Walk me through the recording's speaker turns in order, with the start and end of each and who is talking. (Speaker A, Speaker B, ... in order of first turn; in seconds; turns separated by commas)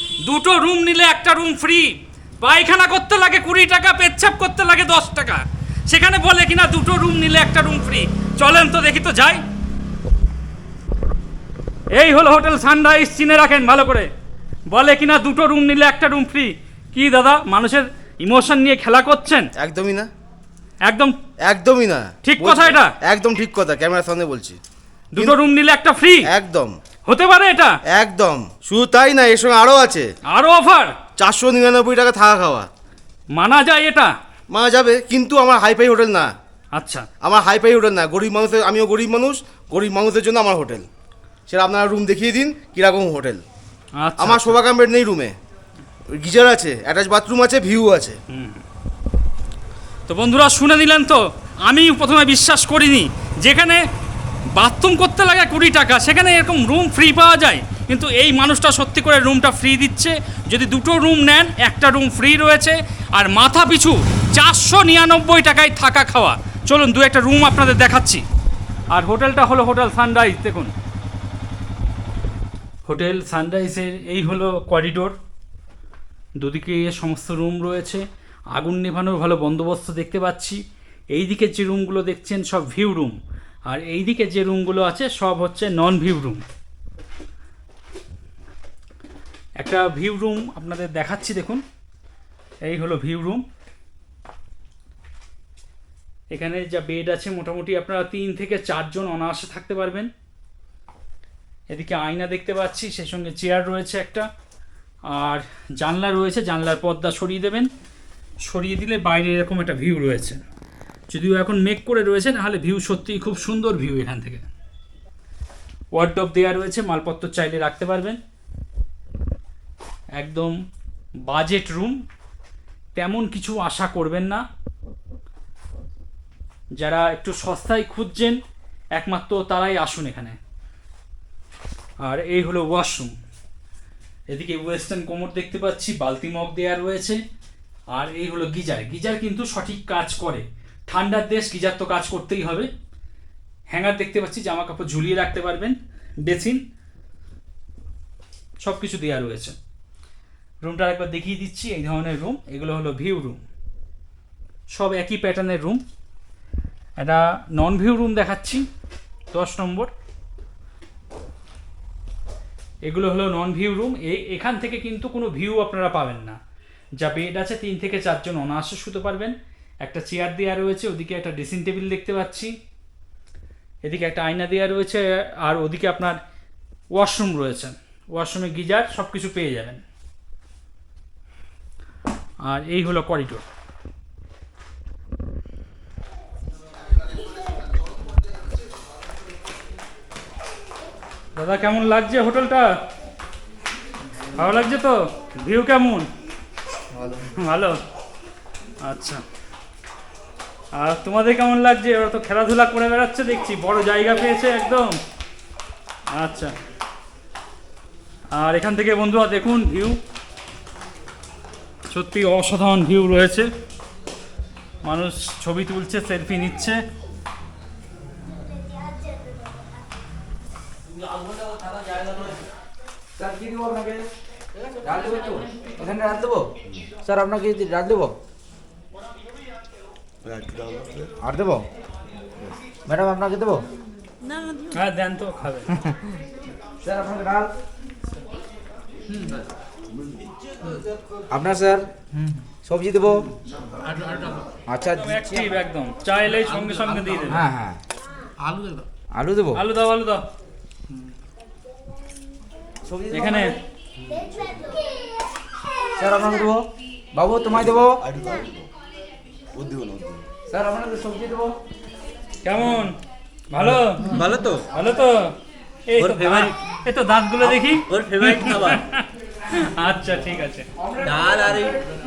Speaker A: 0.2-9.4, Speaker A: 11.9-14.1, Speaker A: 14.7-19.5, Speaker B: 19.6-20.1, Speaker A: 20.9-21.1, Speaker B: 21.4-24.6, Speaker A: 22.2-22.9, Speaker A: 25.1-26.3, Speaker B: 26.3-26.7, Speaker A: 27.1-27.7, Speaker B: 27.9-30.1, Speaker A: 30.3-30.9, Speaker B: 31.2-32.7, Speaker A: 33.3-34.1, Speaker B: 34.5-36.3, Speaker A: 36.7-37.0, Speaker B: 37.2-40.9, Speaker B: 41.5-43.4, Speaker A: 44.0-44.6, Speaker B: 44.2-45.4, Speaker B: 46.1-48.2, Speaker A: 48.3-48.6, Speaker A: 50.1-53.8, Speaker A: 54.5-68.2, Speaker A: 68.9-70.7, Speaker A: 72.8-75.2, Speaker A: 76.4-78.0, Speaker A: 78.5-80.6, Speaker A: 81.1-86.4, Speaker A: 89.6-91.6, Speaker A: 92.7-93.4, Speaker A: 96.3-100.1, Speaker A: 101.7-104.2, Speaker A: 105.1-107.7, Speaker A: 108.4-110.4, Speaker A: 111.1-114.5, Speaker A: 115.9-118.2, Speaker A: 120.2-120.5, Speaker A: 121.3-122.0, Speaker A: 123.0-124.4, Speaker A: 126.8-128.4, Speaker A: 128.9-130.4, Speaker A: 132.0-133.1, Speaker A: 134.3-137.2, Speaker A: 137.9-142.7, Speaker A: 143.7-146.6, Speaker A: 148.6-149.6, Speaker A: 150.6-153.4, Speaker A: 154.7-155.8, Speaker A: 157.0-158.7, Speaker A: 159.3-159.9, Speaker A: 162.8-166.4, Speaker A: 167.0-172.5, Speaker A: 173.8-176.2, Speaker A: 176.9-179.8, Speaker A: 182.4-183.4, Speaker A: 191.3-192.7, Speaker A: 194.3-196.1, Speaker A: 197.3-197.8, Speaker A: 198.8-199.2, Speaker A: 200.7-205.0, Speaker A: 206.1-206.5, Speaker A: 208.3-210.0, Speaker A: 211.9-213.5, Speaker A: 214.8-216.8, Speaker C: 221.1-222.4, Speaker D: 223.2-224.0, Speaker D: 224.8-226.5, Speaker D: 227.0-228.2, Speaker D: 231.2-231.6, Speaker D: 232.9-233.6, Speaker A: 234.7-235.7, Speaker D: 236.8-237.5, Speaker C: 239.2-239.4, Speaker D: 241.3-241.9, Speaker D: 242.6-243.2, Speaker C: 243.8-244.4, Speaker D: 244.7-245.6, Speaker A: 244.9-247.5, Speaker D: 247.2-247.8, Speaker C: 248.4-248.8, Speaker D: 249.1-249.6, Speaker A: 249.5-250.2, Speaker D: 252.8-253.5, Speaker A: 253.1-253.5, Speaker D: 256.0-258.0, Speaker D: 260.5-261.6, Speaker A: 262.4-262.9, Speaker A: 263.5-265.3, Speaker C: 263.6-264.6, Speaker A: 265.9-270.7, Speaker C: 266.0-266.6, Speaker C: 267.4-268.8, Speaker C: 271.0-271.8